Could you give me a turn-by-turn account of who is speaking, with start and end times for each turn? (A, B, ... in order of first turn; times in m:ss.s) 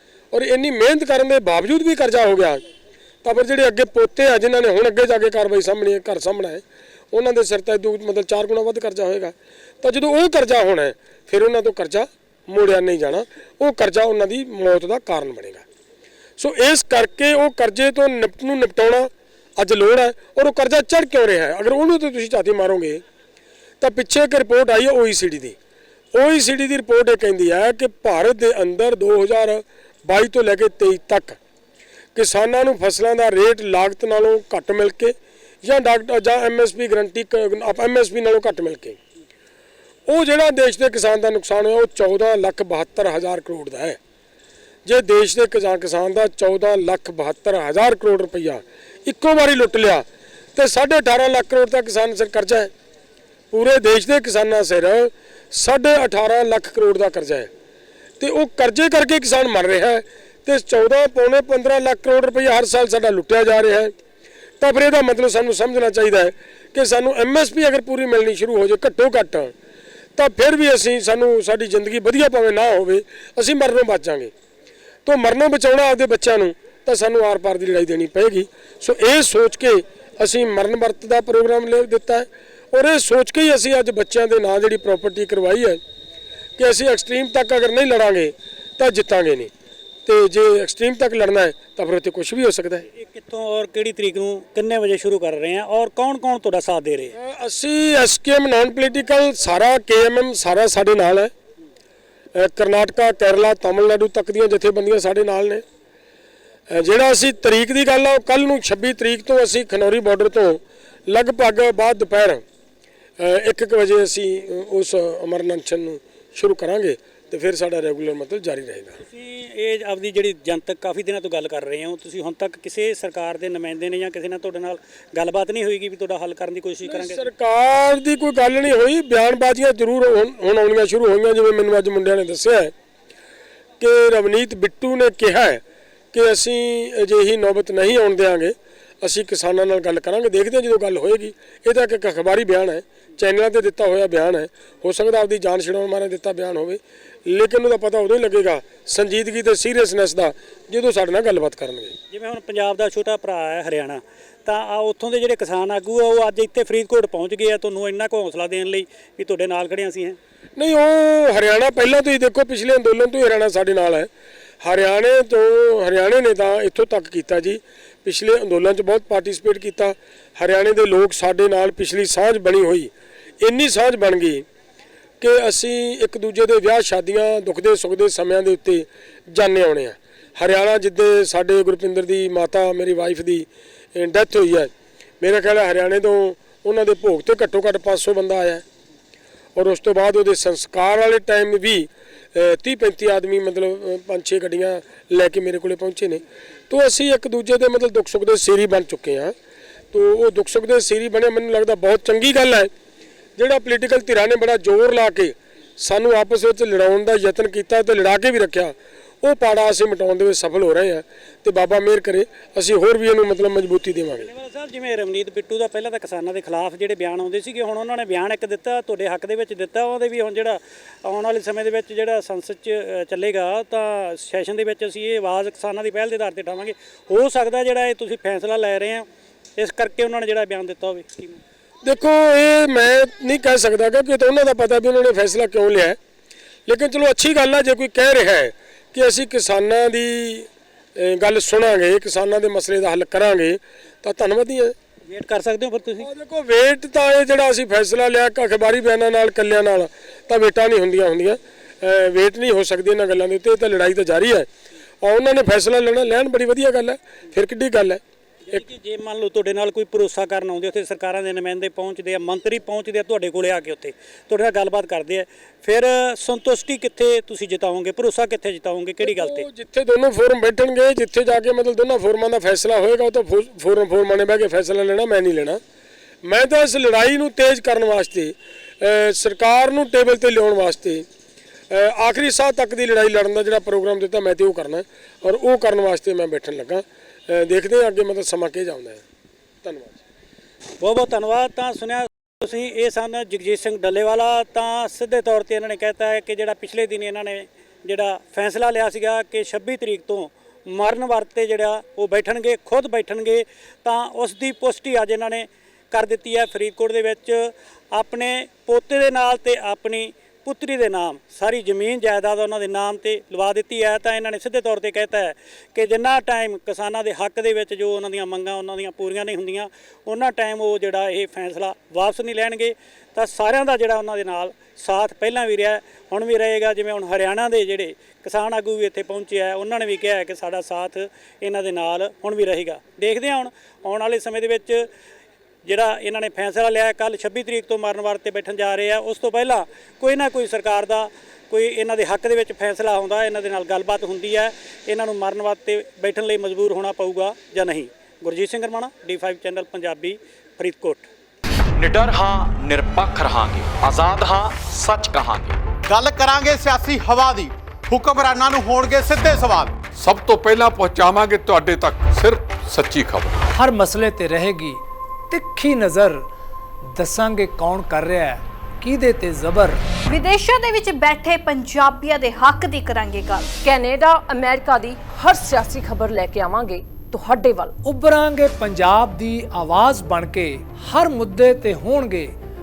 0:00.3-0:02.6 A
0:03.2-0:15.6 A
0:16.4-0:23.0 A
0:23.8-0:25.6 A
0:26.1-0:31.4 A
0:32.1-0:39.0 A
0:40.1-0:44.0 A
0:44.8-0:52.7 A
0:53.5-0:57.5 A
0:58.2-1:03.9 A
1:04.6-1:09.5 A
1:10.2-1:14.3 A
1:15.0-1:25.8 A
1:26.6-1:29.5 A
1:30.0-1:32.8 A
1:32.9-1:37.1 B
1:37.1-1:41.3 A
1:42.3-1:45.6 A
1:46.7-1:52.4 A
1:53.2-1:59.0 A
1:59.0-2:07.2 B
2:06.8-2:12.7 A
2:13.8-2:15.6 A
2:16.1-2:32.0 A
2:32.1-2:40.2 B
2:40.6-2:44.1 A
2:44.6-2:54.4 A
2:55.2-3:08.6 A
3:09.5-3:19.3 A
3:19.9-3:22.7 A
3:23.4-3:34.3 A
3:34.2-3:49.0 B
3:49.6-3:51.4 B
3:51.8-3:56.0 A
3:56.7-4:04.7 A
4:05.1-4:06.1 B
4:06.0-4:14.5 A
4:15.0-4:18.0 A
4:18.5-4:29.4 B
4:29.0-4:35.6 A
4:36.2-4:41.0 A
4:41.7-4:49.0 A
4:49.6-4:50.0 A
4:50.8-5:34.9 B
5:35.6-5:51.1 B
5:51.8-5:55.6 C
5:55.8-5:59.9 D
5:59.9-6:03.4 E
6:03.5-6:06.3 F
6:06.9-6:09.8 F
6:10.1-6:13.5 G
6:13.6-6:17.7 H
6:17.8-6:22.3 F